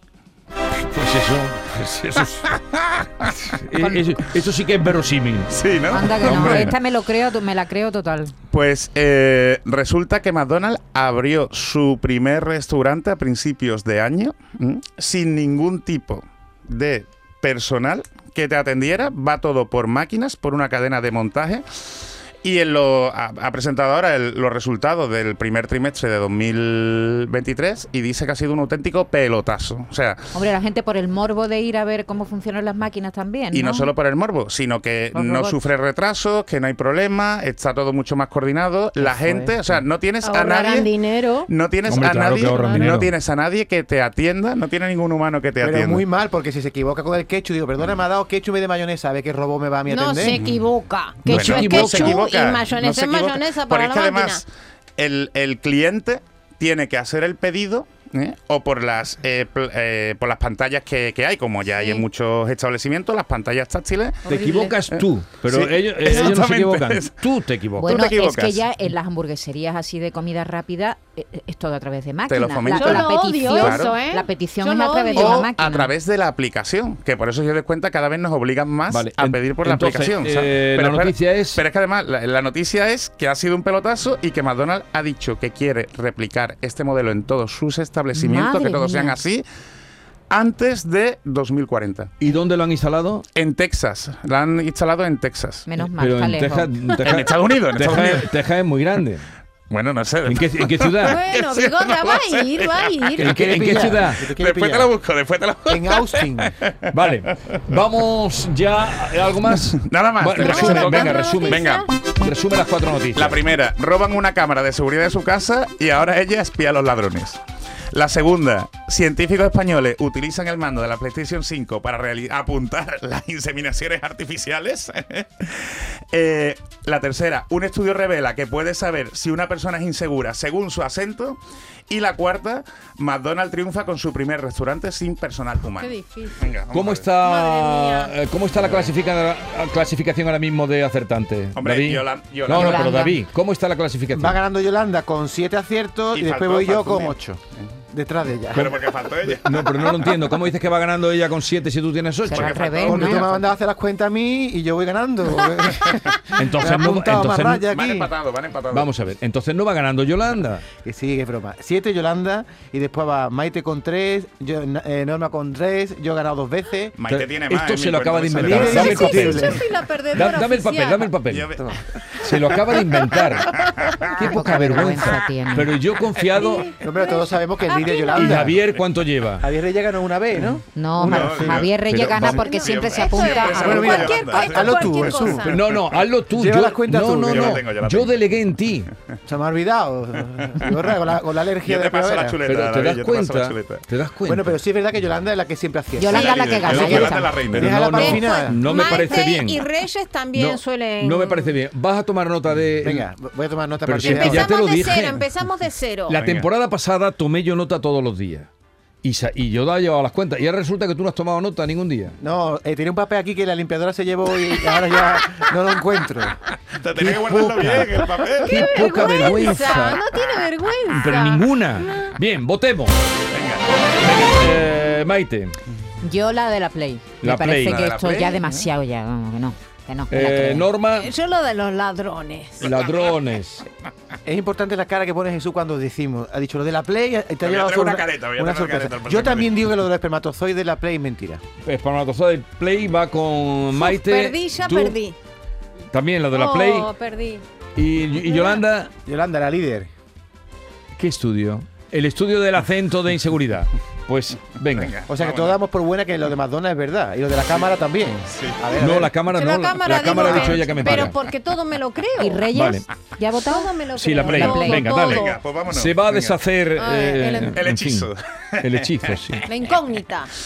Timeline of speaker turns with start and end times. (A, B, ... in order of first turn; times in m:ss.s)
0:00.9-0:02.4 A
0:02.6-0:03.4 B
0:03.5-0:05.5 A
0:05.5-0:06.8 B
0:05.9-0:08.3 C
0:06.2-0:06.7 A
0:08.5-0:21.6 B
0:22.4-0:30.2 B
0:30.3-0:33.9 C
0:33.5-0:40.9 B
0:35.1-0:35.6 C
0:39.0-0:39.5 C
0:40.2-0:41.5 D
0:41.5-0:46.0 B
0:41.8-0:43.1 A
0:42.4-0:42.8 D
0:45.6-0:50.4 E
0:49.9-0:54.4 D
0:50.2-0:50.6 B
0:51.2-1:04.3 B
0:51.2-0:52.2 A
1:04.2-1:04.8 D
1:04.3-1:08.0 A
1:04.9-1:07.2 B
1:07.8-1:08.6 B
1:07.8-1:15.9 C
1:12.3-1:13.9 B
1:12.7-1:15.4 D
1:15.1-1:29.4 B
1:18.9-1:21.6 A
1:28.1-1:29.2 C
1:30.3-1:32.1 B
1:32.2-1:33.2 A
1:33.3-1:35.7 B
1:35.7-1:36.7 C
1:35.8-1:39.2 A
1:37.0-1:38.3 B
1:39.7-1:43.1 B
1:40.2-1:41.2 A
1:41.0-1:43.4 D
1:43.2-1:44.2 A
1:43.2-1:44.9 E
1:44.2-1:47.8 B
1:45.7-1:46.5 E
1:46.9-1:53.4 A
1:49.7-1:51.9 B
1:50.4-1:51.9 D
1:53.1-1:57.4 B
1:57.9-2:17.1 B
2:15.8-2:16.4 D
2:16.7-2:24.4 A
2:17.2-2:18.2 D
2:18.5-2:18.9 B
2:21.5-2:23.0 B
2:22.5-2:23.2 C
2:24.1-2:27.4 E
2:26.1-2:27.7 B
2:27.9-2:28.7 E
2:28.5-2:30.1 B
2:29.2-2:33.0 A
2:32.2-2:33.2 C
2:32.3-2:33.4 B
2:32.8-2:38.1 E
2:36.3-2:37.6 A
2:37.6-2:38.9 B
2:38.7-2:40.6 A
2:40.8-2:47.0 E
2:47.0-2:49.3 B
2:47.1-2:49.6 A
2:48.3-2:49.6 E
2:48.7-2:51.1 D
2:50.1-2:51.5 A
2:51.2-2:52.4 B
2:52.2-2:56.7 A
2:53.6-2:54.2 B
2:54.2-2:55.7 C
2:56.3-2:58.5 D
2:56.8-2:58.6 E
2:58.1-2:59.4 A
2:59.4-3:01.7 E
3:00.7-3:04.1 C
3:01.0-3:06.0 B
3:01.8-3:02.4 A
3:02.4-3:05.6 D
3:03.5-3:05.6 E
3:05.4-3:08.9 A
3:06.3-3:07.6 E
3:07.3-3:08.2 B
3:09.3-3:12.4 E
3:11.6-3:13.8 B
3:12.4-3:14.5 A
3:14.2-3:18.7 E
3:16.0-3:17.3 C
3:16.1-3:18.1 B
3:16.8-3:19.6 A
3:17.9-3:21.6 D
3:20.3-3:23.1 A
3:22.8-3:24.5 E
3:23.8-3:25.2 A
3:24.0-3:26.2 D
3:26.1-3:28.5 A
3:26.2-3:26.5 B
3:29.0-3:32.2 A
3:32.2-3:36.4 E
3:36.8-3:39.3 B
3:37.0-3:40.1 A
3:38.4-3:42.1 D
3:40.9-3:43.0 A
3:43.3-3:44.5 B
3:44.0-3:45.6 A
3:46.0-3:50.7 C
3:47.2-3:47.9 A
3:47.6-3:48.7 B
3:50.1-3:51.1 A
3:51.0-3:52.6 D
3:52.6-3:53.6 A
3:52.6-3:53.1 B
3:54.2-4:01.4 E
3:57.4-3:59.6 B
4:01.6-4:05.0 A
4:03.7-4:05.1 D
4:05.9-4:06.9 A
4:06.3-4:07.4 D
4:07.8-4:08.9 A
4:08.3-4:08.6 D
4:09.0-4:09.9 E
4:11.0-4:15.0 A
4:14.7-4:15.6 B
4:15.1-4:19.1 E
4:18.3-4:18.7 B
4:18.8-4:21.2 A
4:19.3-4:22.5 D
4:20.2-4:21.1 B
4:22.2-4:25.1 C
4:22.5-4:22.8 A
4:23.4-4:25.4 D
4:24.0-4:28.1 A
4:25.0-4:26.4 B
4:26.8-4:27.6 D
4:27.5-4:29.4 B
4:28.6-4:29.4 A
4:29.5-4:30.3 D